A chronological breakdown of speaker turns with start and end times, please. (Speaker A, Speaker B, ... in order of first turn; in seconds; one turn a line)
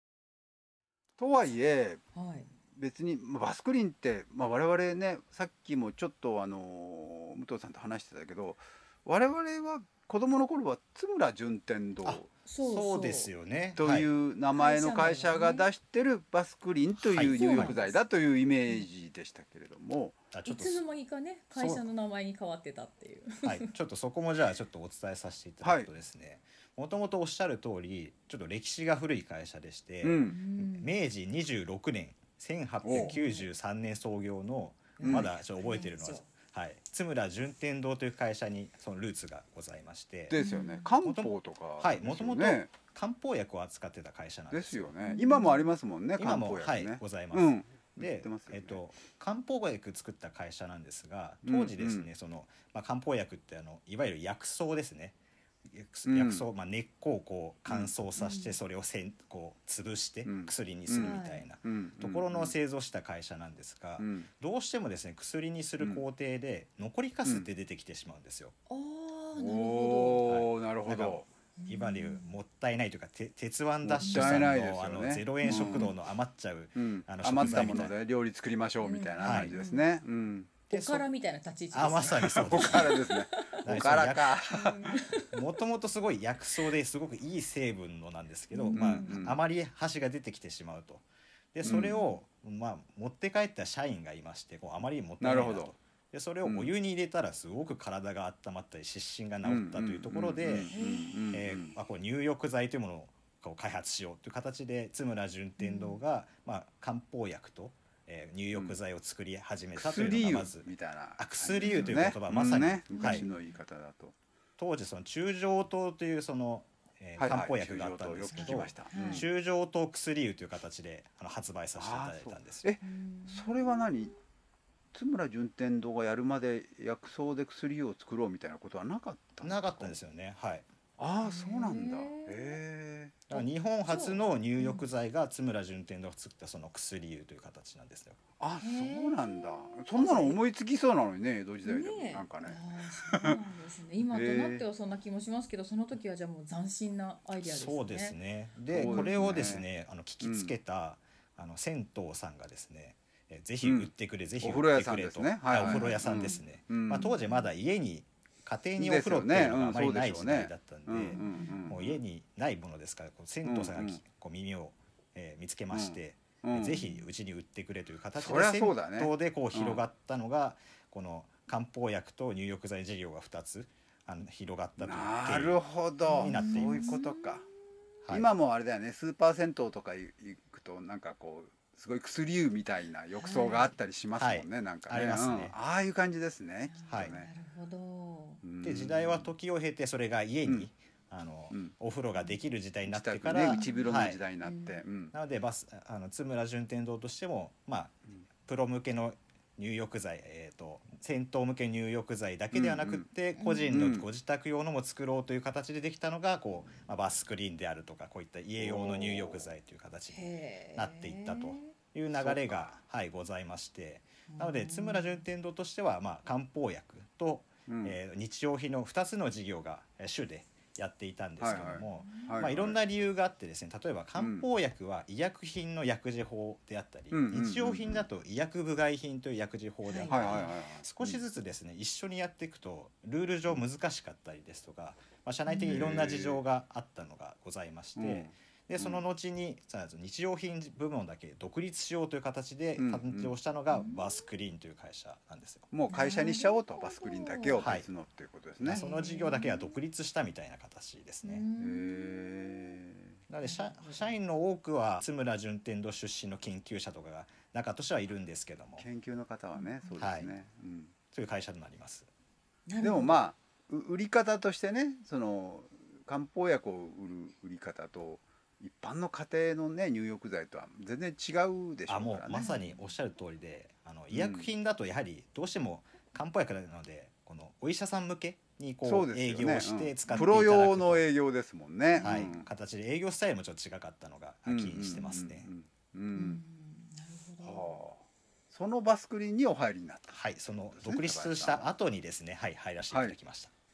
Speaker A: 1.2-2.0
Speaker B: 2.1-2.5
Speaker A: 2.7-12.3
Speaker C: 12.1-14.1
Speaker B: 12.4-13.3
Speaker A: 13.8-20.2
Speaker B: 14.6-15.7
Speaker C: 17.0-17.8
Speaker B: 17.2-18.0
Speaker C: 20.3-20.8
Speaker B: 20.5-23.7
Speaker C: 21.6-21.8
Speaker C: 23.4-40.4
Speaker A: 25.6-25.9
Speaker A: 30.0-30.4
Speaker B: 30.3-30.9
Speaker A: 32.8-33.1
Speaker B: 32.9-33.5
Speaker B: 35.0-36.3
Speaker A: 35.0-35.3
Speaker A: 40.3-42.7
Speaker B: 40.4-40.9
Speaker C: 41.0-44.9
Speaker A: 44.5-48.8
Speaker B: 45.0-45.7
Speaker C: 46.2-55.2
Speaker A: 51.5-52.1
Speaker C: 55.7-68.5
Speaker A: 56.1-56.5
Speaker A: 57.7-57.9
Speaker B: 58.2-58.6
Speaker A: 60.2-62.6
Speaker B: 61.0-61.5
Speaker A: 64.0-64.3
Speaker B: 68.7-70.2
Speaker A: 69.4-71.3
Speaker C: 70.2-77.9
Speaker B: 71.6-72.4
Speaker A: 73.8-75.9
Speaker B: 74.0-74.4
Speaker B: 75.4-75.9
Speaker A: 76.8-80.5
Speaker B: 78.8-79.8
Speaker C: 79.2-79.5
Speaker B: 80.7-83.7
Speaker C: 80.7-81.1
Speaker C: 81.7-83.0
Speaker A: 82.3-85.0
Speaker C: 83.6-84.4
Speaker B: 84.4-85.4
Speaker C: 85.3-100.7
Speaker B: 88.5-89.2
Speaker A: 88.7-89.4
Speaker A: 91.6-92.0
Speaker B: 91.7-92.1
Speaker A: 95.2-95.7
Speaker A: 96.4-96.7
Speaker A: 99.4-101.8
Speaker B: 100.7-101.2
Speaker C: 101.3-113.3
Speaker B: 105.6-106.0
Speaker A: 109.8-114.1
Speaker B: 111.6-112.0
Speaker B: 112.9-113.4
Speaker C: 114.6-122.7
Speaker A: 117.2-119.3
Speaker B: 118.3-119.3
Speaker A: 121.8-124.1
Speaker B: 122.8-123.8
Speaker A: 124.9-130.0
Speaker C: 129.4-130.7
Speaker A: 131.0-133.2
Speaker B: 131.2-132.6
Speaker C: 133.3-138.2
Speaker B: 133.3-134.9
Speaker A: 138.4-143.4
Speaker B: 138.6-140.4
Speaker B: 141.7-148.2
Speaker A: 144.1-144.7
Speaker C: 147.4-175.6
Speaker A: 148.7-149.7
Speaker B: 148.8-149.4
Speaker A: 150.2-150.5
Speaker A: 153.6-157.1
Speaker B: 155.6-156.4
Speaker B: 157.0-157.5
Speaker A: 158.8-162.0
Speaker B: 161.1-161.7
Speaker A: 163.4-164.0
Speaker A: 165.7-166.8
Speaker B: 166.8-167.0
Speaker A: 168.2-169.8
Speaker A: 174.8-177.5
Speaker B: 176.1-177.4
Speaker C: 176.1-177.0
Speaker A: 178.1-187.3
Speaker B: 183.2-183.7
Speaker C: 184.2-185.6
Speaker B: 186.7-188.4
Speaker C: 186.9-187.2
Speaker A: 188.4-189.3
Speaker C: 188.6-194.2
Speaker A: 192.9-195.1
Speaker B: 193.5-194.8
Speaker C: 195.1-245.7
Speaker A: 202.5-203.1
Speaker B: 203.4-203.8
Speaker A: 203.7-204.1
Speaker A: 208.6-209.5
Speaker B: 210.1-211.8
Speaker A: 212.1-212.7
Speaker B: 214.3-215.2
Speaker A: 217.7-218.0
Speaker A: 221.4-222.8
Speaker B: 221.6-222.4
Speaker A: 224.2-224.5
Speaker A: 227.1-228.1
Speaker B: 229.9-230.6
Speaker A: 230.1-231.2
Speaker B: 235.5-235.8
Speaker A: 235.6-236.4
Speaker A: 238.0-239.0
Speaker A: 242.8-243.3
Speaker B: 243.7-244.0
Speaker A: 245.7-248.8
Speaker B: 245.9-247.7
Speaker C: 247.6-247.9
Speaker C: 248.6-251.4
Speaker B: 248.7-249.7
Speaker B: 251.2-252.8
Speaker A: 251.6-253.2
Speaker C: 253.3-258.9
Speaker B: 253.4-254.1
Speaker A: 258.8-260.9
Speaker B: 259.6-259.9
Speaker C: 260.0-260.3
Speaker C: 261.1-262.1
Speaker B: 262.7-263.2
Speaker A: 262.8-272.5
Speaker C: 271.9-281.1
Speaker B: 272.3-272.8
Speaker A: 274.1-274.5
Speaker A: 278.8-282.5
Speaker B: 281.9-282.4
Speaker C: 282.0-285.5
Speaker A: 284.5-286.4
Speaker B: 286.1-287.8
Speaker A: 287.4-291.7
Speaker C: 290.1-293.5
Speaker A: 292.9-293.2